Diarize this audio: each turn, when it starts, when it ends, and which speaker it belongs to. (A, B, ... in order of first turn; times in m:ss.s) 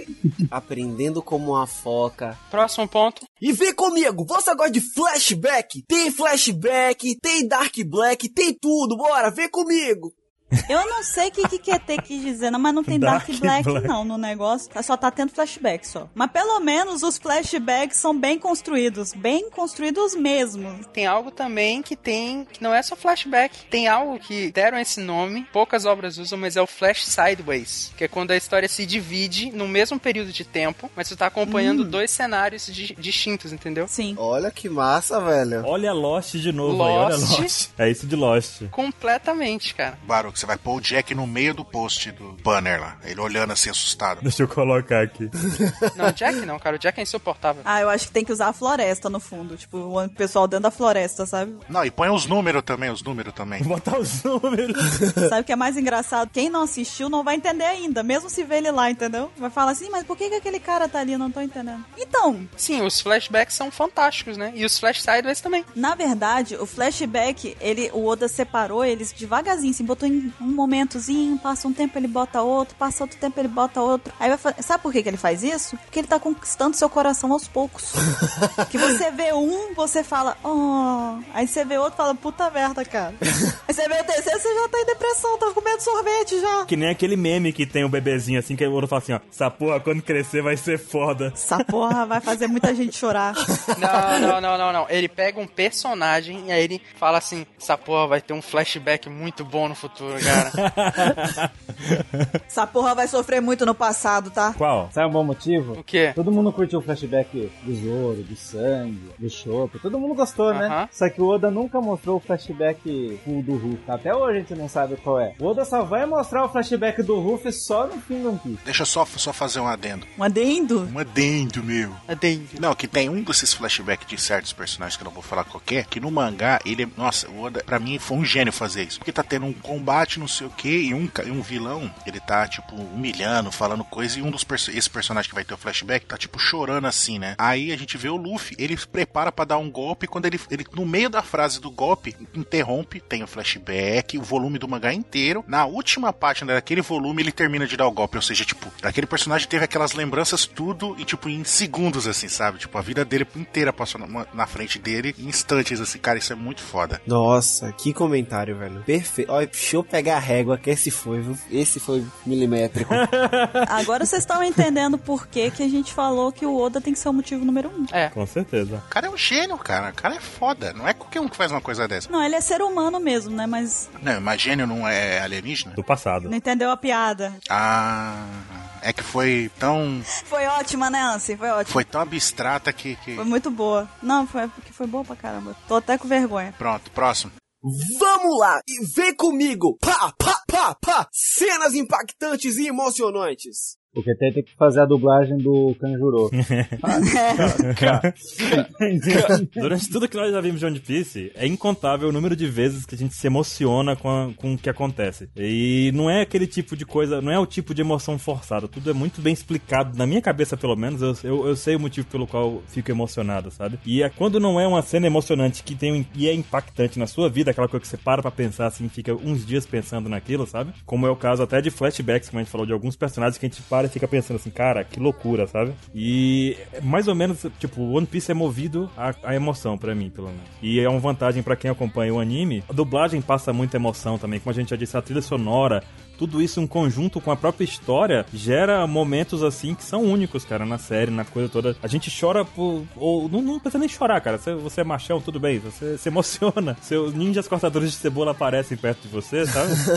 0:00.5-0:02.4 A
0:02.5-0:03.3 B
0:03.4-0:10.1 A
0:10.7-0:20.9 C
0:12.9-0:13.9 D
0:20.9-0:33.9 B
0:31.4-0:32.0 C
0:33.9-0:34.2 C
0:34.2-0:35.7 A
0:35.6-0:38.7 D
0:36.6-0:37.5 B
0:38.7-0:40.0 B
0:40.0-0:44.3 E
0:44.2-0:45.3 D
0:45.9-0:47.6 B
0:47.6-0:51.6 C
0:51.7-0:53.7 E
0:53.6-0:55.1 D
0:55.3-1:02.5 C
1:02.6-1:05.7 B
1:05.7-1:18.0 C
1:18.7-1:26.7 C
1:26.7-1:31.6 D
1:31.4-1:33.4 C
1:33.7-1:34.3 A
1:33.8-1:40.6 B
1:40.6-1:42.4 D
1:42.5-1:44.6 C
1:44.6-1:44.9 D
1:44.9-1:58.6 F
1:45.8-1:46.2 B
1:50.5-1:50.9 B
1:58.6-2:00.1 E
2:00.2-2:00.9 C
2:00.8-2:02.0 E
2:02.1-2:02.6 B
2:02.6-2:37.0 E
2:37.1-2:43.0 A
2:42.9-2:43.7 D
2:43.6-2:47.9 C
2:48.1-2:48.8 D
2:48.9-2:52.1 E
2:52.1-2:53.9 C
2:54.0-2:55.8 E
2:55.8-2:56.3 D
2:56.3-2:57.4 C
2:57.5-3:00.1 E
3:00.2-3:01.8 C
3:01.6-3:03.3 E
3:03.2-3:06.6 C
3:06.6-3:07.3 E
3:07.6-3:13.8 A
3:13.9-3:19.7 F
3:16.4-3:16.8 D
3:17.0-3:17.6 C
3:17.6-3:18.1 D
3:19.1-4:09.8 D